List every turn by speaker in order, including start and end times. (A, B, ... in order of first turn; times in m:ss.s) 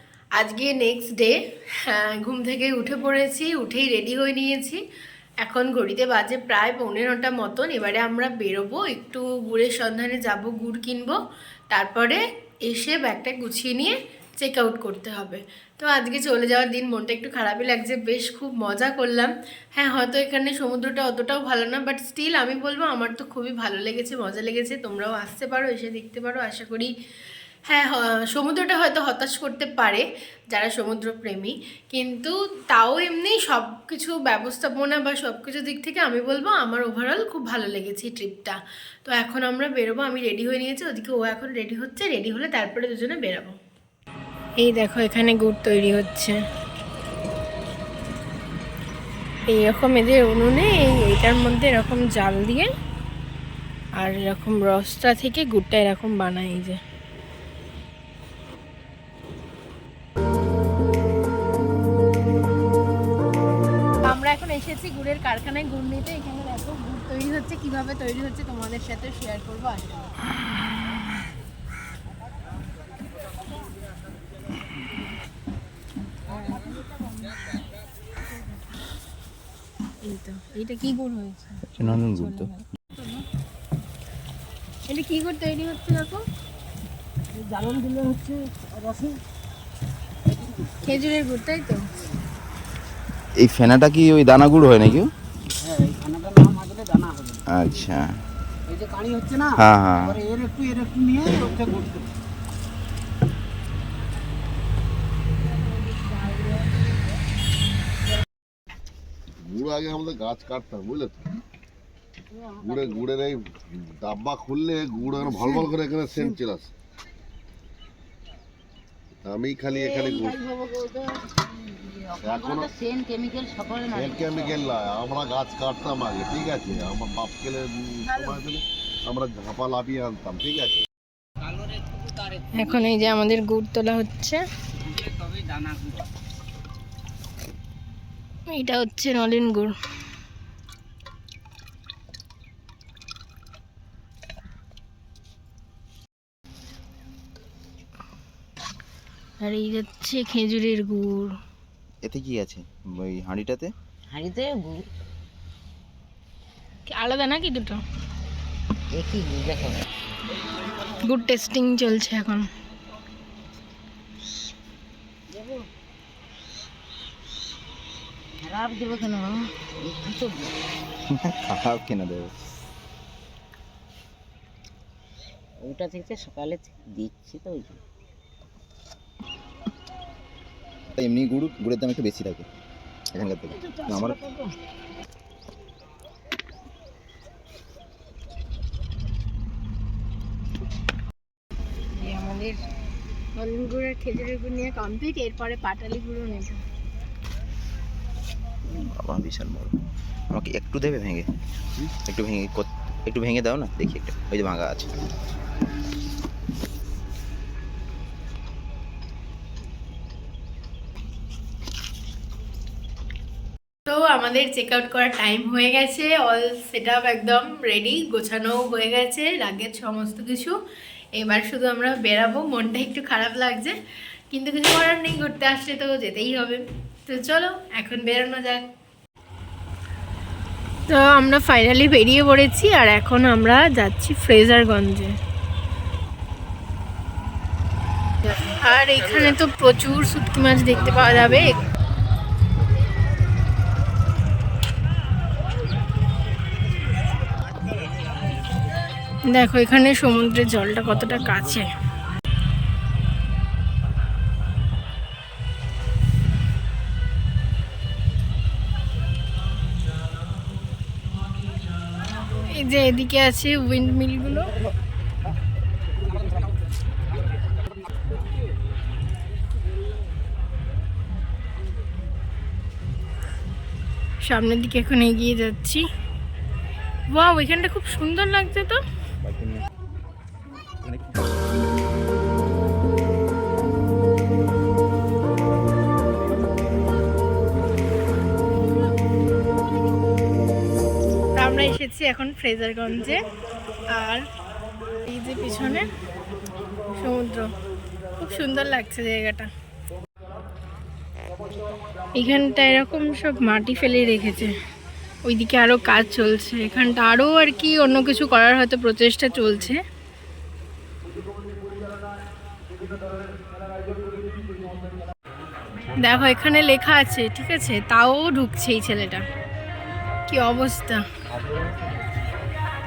0:00.4-0:04.8 A
0:05.4-0:11.2 A
0:11.7-0:26.9 A
0:27.7-0:43.6 A
0:44.6-0:46.4 A
0:49.4-0:52.7 A
0:54.0-0:56.8 A
1:04.0-1:10.0 A
1:20.0-1:23.2 A
1:21.7-1:22.5 B
1:24.9-1:26.2 A
1:27.4-1:29.1 C
1:30.8-1:31.8 A
1:33.4-1:35.1 B
1:35.7-1:37.4 C
1:37.5-1:38.1 B
1:38.7-1:39.5 C
1:39.6-1:40.2 B
1:40.3-1:42.1 C
1:49.4-1:51.3 D
1:52.3-1:53.0 E
1:52.6-1:56.7 D
1:59.2-2:00.4 D
1:59.7-2:04.7 E
2:02.2-2:02.7 D
2:03.9-2:10.8 D
2:08.1-2:08.4 A
2:12.5-2:14.4 A
2:15.1-2:15.5 C
2:18.5-2:19.7 A
2:29.4-2:31.3 A
2:32.0-2:33.7 B
2:34.1-2:34.9 E
2:36.9-2:37.8 A
2:38.9-2:39.8 E
2:41.0-2:42.5 A
2:45.3-2:45.6 E
2:48.4-2:50.5 E
2:51.1-2:52.3 B
2:55.6-2:57.8 E
3:01.0-3:02.4 B
3:03.1-3:04.2 B
3:03.7-3:04.5 E
3:12.0-3:12.6 A
3:13.3-3:16.6 A
3:18.7-3:19.8 B
3:20.3-3:21.2 B
3:22.0-3:24.9 B
3:33.9-3:40.6 A
3:41.2-3:43.8 A
3:44.3-3:48.6 A
3:50.9-3:55.1 A
3:58.2-4:01.6 A
4:09.3-4:11.7 A
4:22.5-4:24.5 A
4:34.2-4:35.8 A
4:37.1-4:38.8 A
4:39.2-4:39.6 B
4:40.8-4:41.1 B
4:51.4-4:53.2 A
4:53.9-4:54.2 A
4:55.0-4:55.8 A
4:56.9-4:57.5 A
4:58.2-4:59.5 A
5:02.1-5:04.5 A
5:05.2-5:09.8 A
5:15.9-5:19.2 A
5:20.3-5:21.0 A
5:21.4-5:21.7 B